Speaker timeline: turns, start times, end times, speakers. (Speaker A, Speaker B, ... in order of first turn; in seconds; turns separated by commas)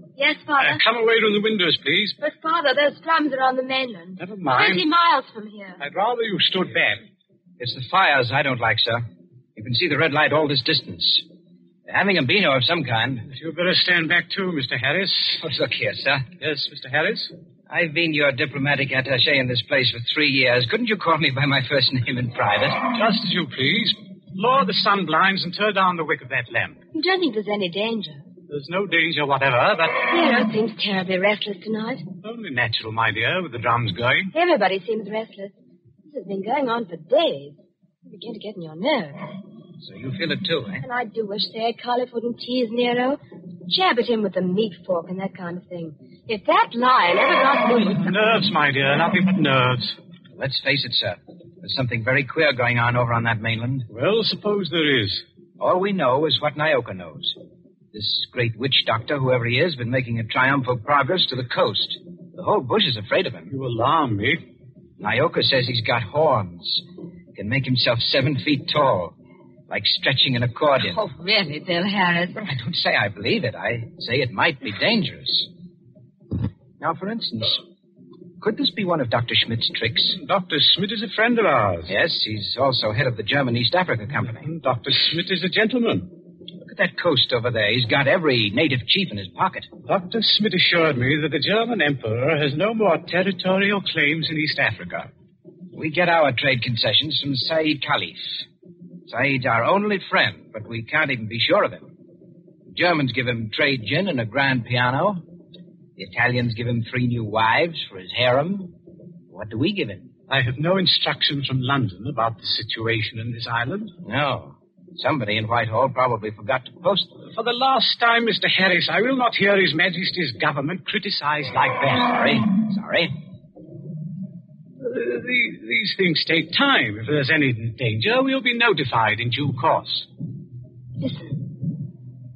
Speaker A: 0.2-0.8, Speaker B: 0.6-2.2, Speaker A: 2.2-5.8, Speaker B: 4.2-4.8, Speaker B: 5.8-7.0, Speaker C: 7.6-9.0, Speaker C: 9.6-11.2, Speaker C: 11.9-13.3, Speaker B: 13.3-15.4, Speaker C: 15.4-16.3, Speaker B: 16.4-17.3, Speaker C: 17.7-22.8, Speaker B: 22.9-26.8, Speaker A: 26.9-28.3, Speaker B: 28.5-30.0, Speaker A: 30.0-32.0, Speaker B: 32.2-34.3, Speaker A: 34.3-39.2, Speaker C: 39.8-40.8, Speaker A: 40.8-48.1, Speaker B: 48.0-50.0, Speaker C: 50.4-53.9, Speaker B: 53.9-55.2, Speaker C: 55.6-57.4, Speaker C: 57.9-63.5, Speaker B: 63.5-64.4, Speaker C: 65.0-66.8, Speaker C: 67.3-69.1, Speaker C: 69.7-71.0, Speaker A: 70.8-72.5, Speaker C: 72.4-75.5, Speaker C: 76.8-77.6, Speaker C: 78.4-80.2, Speaker B: 80.1-81.9, Speaker C: 81.9-84.5, Speaker B: 84.5-86.1, Speaker C: 86.6-89.7, Speaker B: 89.9-95.1, Speaker C: 95.7-98.4, Speaker C: 99.1-101.9, Speaker C: 102.7-105.2, Speaker C: 106.0-108.7, Speaker C: 109.3-110.1, Speaker B: 110.3-113.9, Speaker C: 114.0-117.1, Speaker B: 117.3-122.1, Speaker C: 122.0-123.1, Speaker B: 124.8-130.1, Speaker A: 131.0-131.4